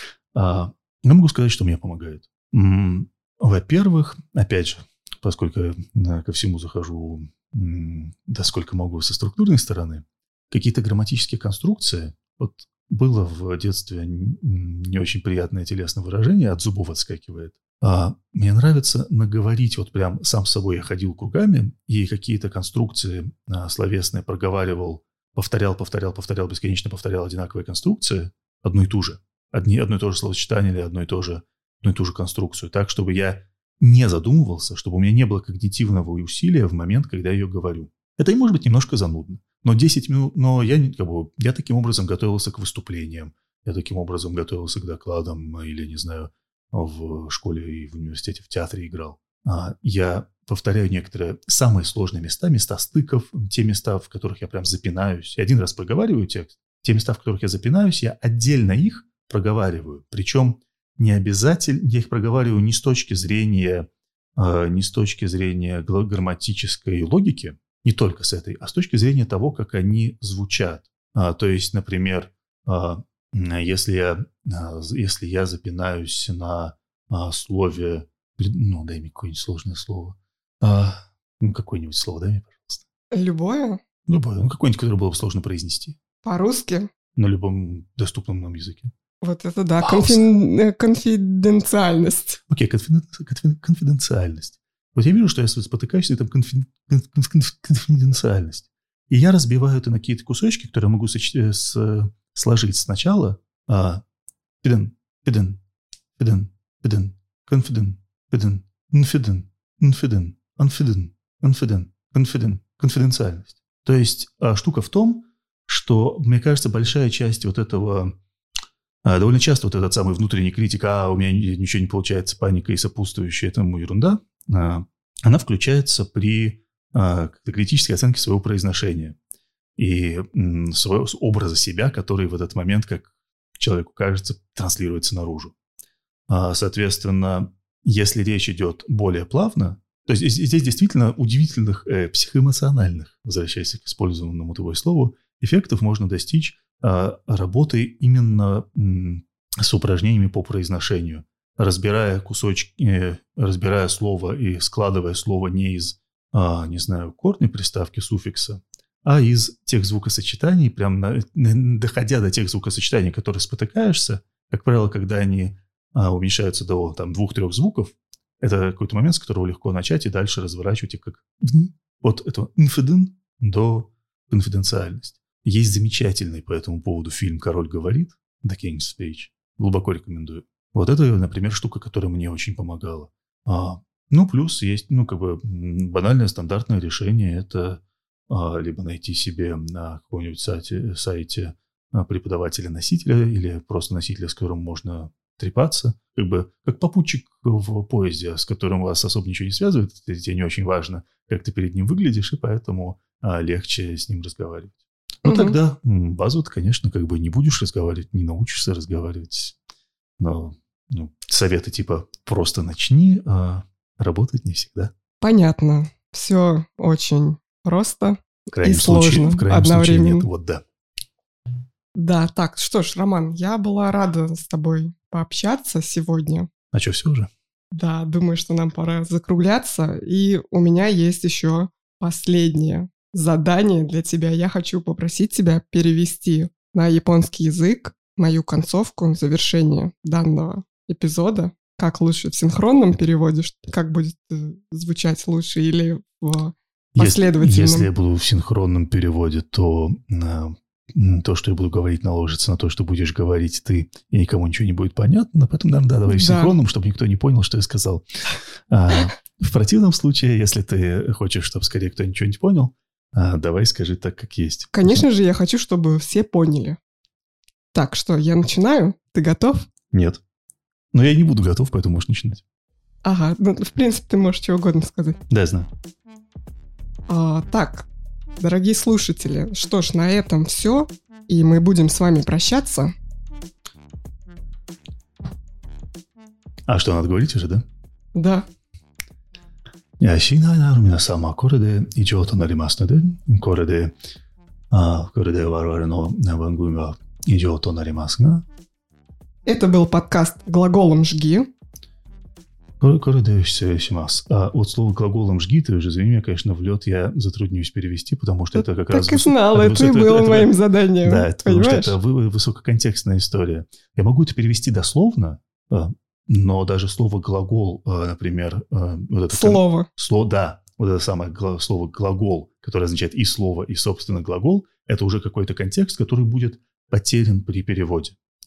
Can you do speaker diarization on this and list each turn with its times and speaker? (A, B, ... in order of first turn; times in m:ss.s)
0:00.3-1:22.8 A
1:23.1-1:23.8 B
1:24.1-1:26.0 A
1:26.2-1:26.9 B
1:27.1-1:28.9 A
1:29.2-1:32.4 B
1:29.8-1:30.2 A
1:32.5-1:44.0 A
1:44.6-1:45.6 A
1:46.2-1:58.2 A
1:59.0-2:09.2 A
2:09.8-2:15.5 A
2:16.3-3:29.6 A
3:25.2-3:25.6 B
3:30.2-3:34.9 A
3:35.2-3:40.3 B
3:38.5-3:40.6 A
3:41.9-3:46.5 B
3:46.7-3:47.3 A
3:47.7-4:07.9 B
4:06.9-4:18.0 A
4:16.1-4:16.5 B
4:18.7-4:25.0 A
4:24.7-4:26.8 B
4:27.7-4:29.7 B
4:29.9-4:30.2 A
4:30.9-4:32.4 A
4:33.0-4:35.2 B
4:35.3-4:35.7 A
4:37.1-4:37.9 B
4:38.4-4:42.9 B
4:46.7-4:47.6 A
4:48.1-4:48.4 B
4:50.0-4:53.9 A
4:54.7-4:58.4 A
4:59.5-5:01.5 B
5:02.8-5:28.2 A
5:08.5-5:12.0 B
5:19.3-5:19.9 B